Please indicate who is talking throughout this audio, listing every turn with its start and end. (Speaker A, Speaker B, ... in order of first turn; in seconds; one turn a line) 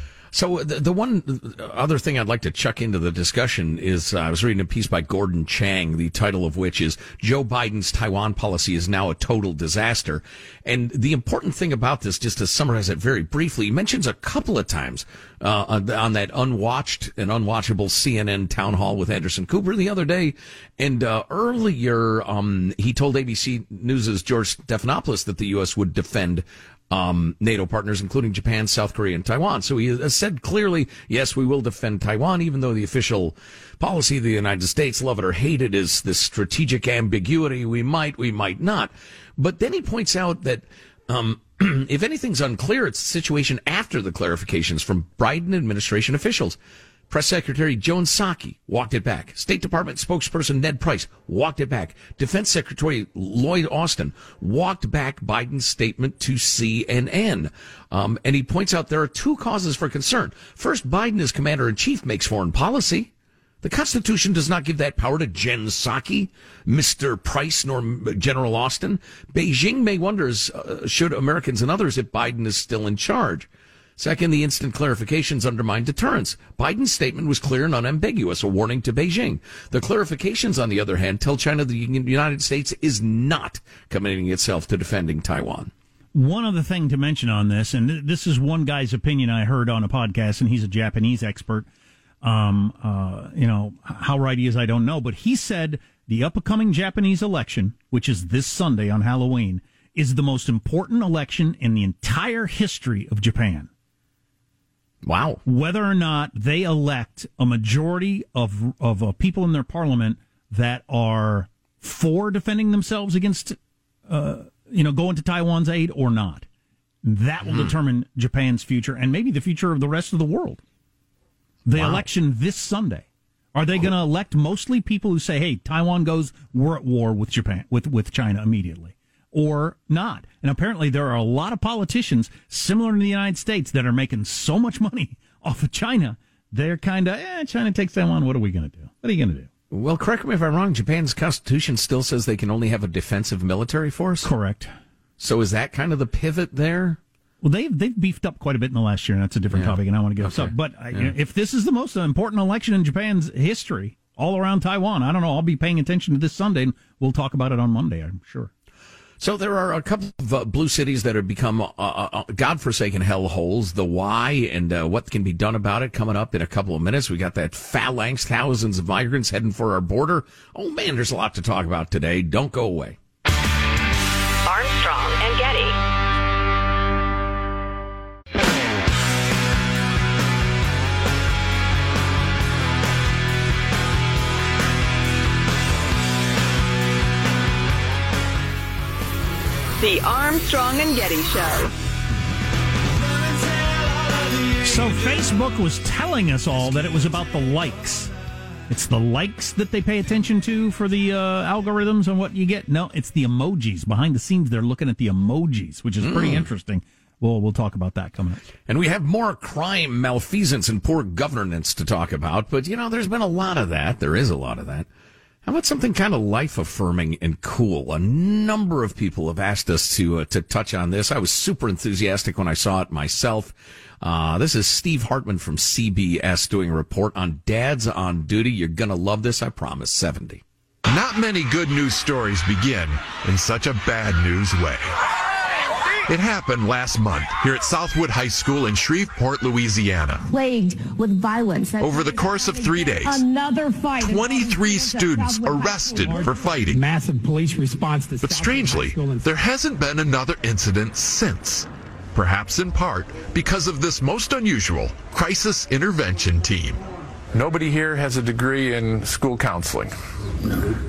Speaker A: 0.3-46.6
Speaker A: 47.1-63.1
Speaker A: 63.6-85.7
Speaker B: 86.1-91.7
Speaker B: 92.2-103.7
Speaker A: 105.0-105.4
Speaker B: 105.5-113.6
Speaker B: 114.1-116.5
Speaker B: 117.0-120.6
Speaker A: 117.5-117.8
Speaker B: 121.7-139.5
Speaker A: 121.8-122.1
Speaker A: 139.7-144.3
Speaker B: 144.2-144.7
Speaker A: 145.2-147.0
Speaker B: 147.4-158.5
Speaker A: 149.5-151.1
Speaker A: 159.2-173.0
Speaker C: 174.5-175.7
Speaker C: 189.8-191.7
Speaker B: 194.6-198.1
Speaker B: 198.7-208.4
Speaker A: 206.0-206.5
Speaker A: 208.7-214.9
Speaker A: 215.4-230.4
Speaker D: 230.9-234.9
Speaker D: 236.1-240.2
Speaker E: 240.3-249.3
Speaker D: 241.8-243.3
Speaker D: 244.0-246.8
Speaker D: 248.2-256.8
Speaker F: 257.3-259.9